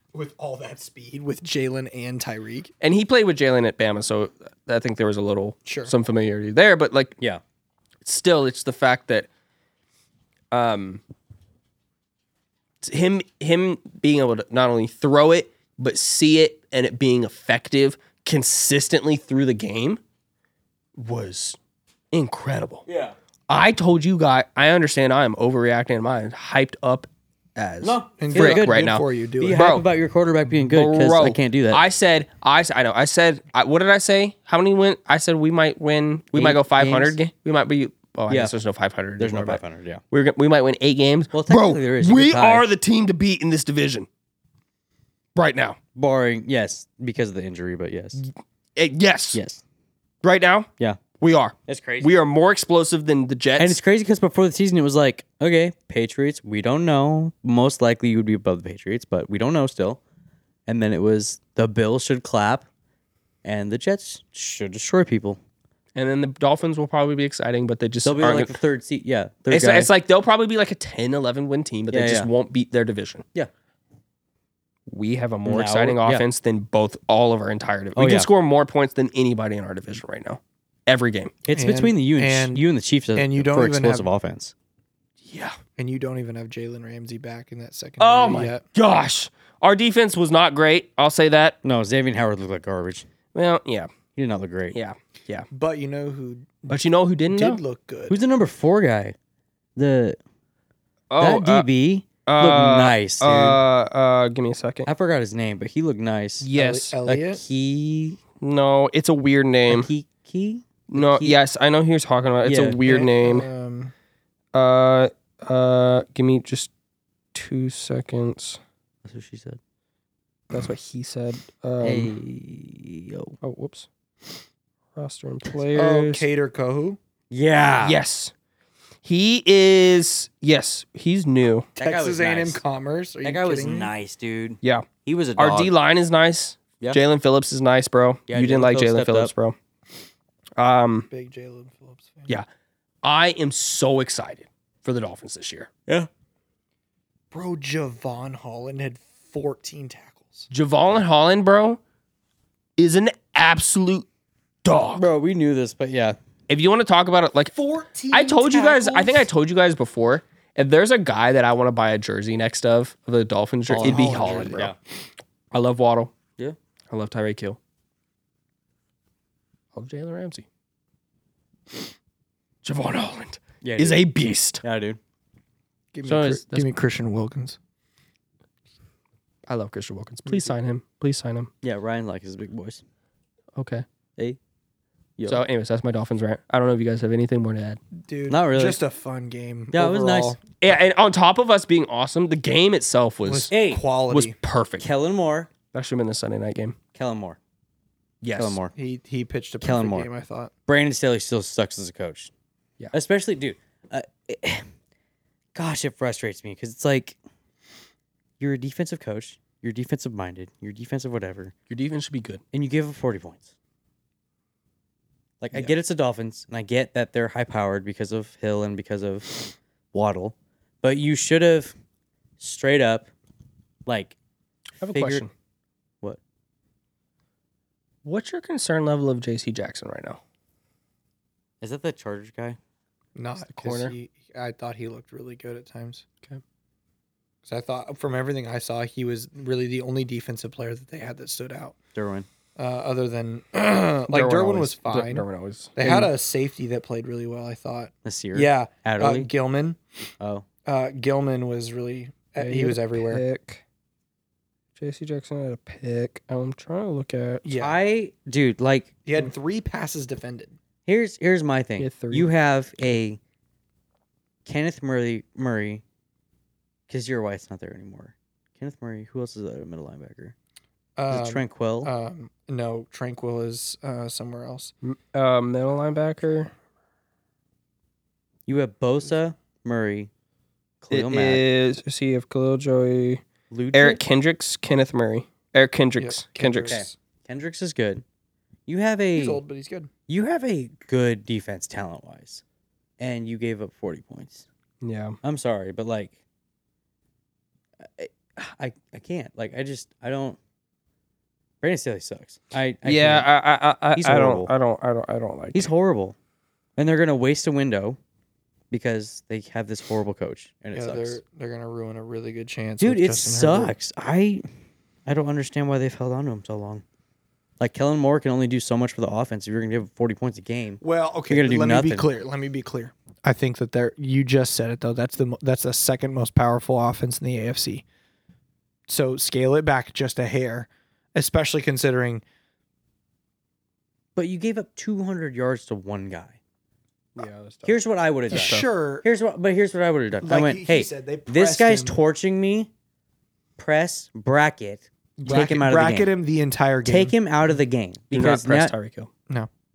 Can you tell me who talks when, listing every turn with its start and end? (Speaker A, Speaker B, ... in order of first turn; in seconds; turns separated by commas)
Speaker A: 0.1-2.7, Speaker B: 2.8-7.2, Speaker A: 5.7-5.9, Speaker B: 8.0-9.3, Speaker B: 10.5-11.0, Speaker B: 12.8-20.0, Speaker B: 21.0-21.6, Speaker B: 22.1-22.8, Speaker C: 22.9-23.1, Speaker B: 23.5-29.8, Speaker C: 27.8-28.8, Speaker A: 28.2-29.6, Speaker C: 29.4-31.8, Speaker B: 30.7-44.1, Speaker C: 36.3-37.2, Speaker C: 38.3-38.5, Speaker C: 39.2-40.0, Speaker C: 41.3-42.6, Speaker B: 45.4-45.8, Speaker C: 45.9-48.2, Speaker B: 48.2-49.4, Speaker C: 49.3-49.6, Speaker B: 50.2-50.7, Speaker B: 51.2-53.8, Speaker C: 51.7-52.1, Speaker C: 53.6-60.0, Speaker C: 60.7-62.7, Speaker C: 63.4-65.4, Speaker B: 65.9-68.5, Speaker C: 68.0-69.9, Speaker B: 69.5-73.2, Speaker C: 71.9-72.3, Speaker B: 74.9-81.4, Speaker C: 75.5-76.2, Speaker C: 78.0-78.3, Speaker C: 81.4-84.5, Speaker A: 81.5-84.1, Speaker B: 85.2-85.6, Speaker A: 85.8-88.6, Speaker B: 88.0-91.6, Speaker C: 91.6-93.1, Speaker B: 93.3-93.9, Speaker C: 94.1-94.8, Speaker B: 94.7-95.5, Speaker A: 95.5-98.2, Speaker B: 96.7-97.6, Speaker C: 98.1-99.2, Speaker C: 99.8-100.2, Speaker B: 101.1-101.7, Speaker C: 101.2-103.6, Speaker B: 102.2-104.9, Speaker C: 104.8-106.5, Speaker B: 106.4-107.0, Speaker A: 106.5-107.4, Speaker C: 107.0-108.2, Speaker B: 108.4-109.9, Speaker C: 109.7-111.4, Speaker B: 110.9-113.5, Speaker C: 112.4-112.8, Speaker A: 112.8-113.9, Speaker B: 114.5-116.7, Speaker B: 117.3-118.6, Speaker C: 119.0-119.6, Speaker B: 120.5-122.1, Speaker C: 121.8-123.4, Speaker B: 123.4-123.9, Speaker B: 124.9-126.2, Speaker A: 125.7-127.0, Speaker C: 127.3-128.0, Speaker B: 127.8-128.3, Speaker B: 129.0-131.7, Speaker A: 131.8-133.9, Speaker C: 131.8-132.6, Speaker C: 133.2-135.7, Speaker B: 134.6-139.6, Speaker C: 138.3-139.3, Speaker B: 140.6-141.1, Speaker A: 141.1-142.3, Speaker B: 143.0-145.7, Speaker A: 147.3-150.5, Speaker B: 150.5-151.8, Speaker B: 152.8-154.1, Speaker B: 154.6-155.1, Speaker C: 154.9-156.2, Speaker B: 156.5-157.5, Speaker A: 157.5-159.3, Speaker B: 158.1-164.7, Speaker C: 163.7-164.8, Speaker A: 163.8-164.7, Speaker B: 165.5-166.1, Speaker B: 166.9-167.6, Speaker B: 169.7-170.4, Speaker B: 172.6-174.6, Speaker C: 173.6-174.0, Speaker C: 174.6-175.0, Speaker A: 175.9-177.6, Speaker B: 176.0-176.7, Speaker B: 179.5-181.5, Speaker C: 181.6-182.8, Speaker B: 183.6-183.8, Speaker B: 185.3-187.8, Speaker A: 188.0-190.4, Speaker C: 188.3-188.8, Speaker C: 189.7-190.4, Speaker B: 190.6-193.5, Speaker A: 193.2-194.3, Speaker C: 193.5-193.8, Speaker B: 194.1-194.8, Speaker C: 194.8-195.5, Speaker B: 195.7-196.8, Speaker C: 196.9-197.4, Speaker B: 198.2-198.6, Speaker C: 198.3-198.7, Speaker A: 198.7-200.5, Speaker C: 199.6-200.1, Speaker C: 200.7-202.3, Speaker C: 202.9-204.7, Speaker C: 205.5-207.2, Speaker C: 208.4-211.5, Speaker B: 211.7-212.4, Speaker C: 212.5-213.5, Speaker C: 215.4-221.7, Speaker C: 222.4-223.1, Speaker C: 223.8-224.2, Speaker B: 224.8-225.3, Speaker C: 224.8-225.2, Speaker B: 228.0-230.2, Speaker C: 231.6-232.6, Speaker A: 233.1-236.0, Speaker B: 233.5-233.9, Speaker A: 237.4-241.8, Speaker C: 241.9-242.3, Speaker A: 242.6-249.8, Speaker B: 244.1-246.0, Speaker C: 248.0-249.3, Speaker C: 250.2-250.4, Speaker A: 250.7-253.2, Speaker B: 252.4-253.6, Speaker B: 254.8-257.4, Speaker A: 257.4-257.8, Speaker C: 257.6-258.9, Speaker A: 259.0-260.6, Speaker C: 260.9-263.2, Speaker B: 261.8-262.3, Speaker C: 264.4-265.8, Speaker C: 266.9-270.3, Speaker A: 271.0-274.7, Speaker C: 271.1-271.9, Speaker B: 274.8-276.5, Speaker C: 278.5-280.1, Speaker C: 280.8-281.4, Speaker B: 280.9-283.2, Speaker C: 283.5-284.0, Speaker B: 283.7-286.8, Speaker A: 286.0-286.9, Speaker C: 286.6-288.0, Speaker C: 288.7-289.4, Speaker A: 289.1-289.9, Speaker C: 290.1-292.4, Speaker C: 293.0-294.4, Speaker B: 294.8-295.2, Speaker C: 295.2-296.1, Speaker C: 297.8-300.4, Speaker C: 301.6-303.3, Speaker B: 302.8-305.7, Speaker C: 303.9-304.5, Speaker C: 305.5-306.1, Speaker C: 306.8-308.0, Speaker C: 308.7-311.2, Speaker A: 310.7-313.7, Speaker C: 312.8-314.4, Speaker C: 315.1-316.8, Speaker C: 317.6-322.1, Speaker A: 320.8-327.8, Speaker A: 328.9-332.2, Speaker C: 334.1-336.4, Speaker B: 337.1-337.8, Speaker C: 337.6-342.7, Speaker B: 338.3-338.7, Speaker A: 338.3-339.1, Speaker A: 340.2-342.0, Speaker C: 343.6-346.1, Speaker A: 345.2-347.1, Speaker C: 346.8-348.7, Speaker B: 348.1-349.1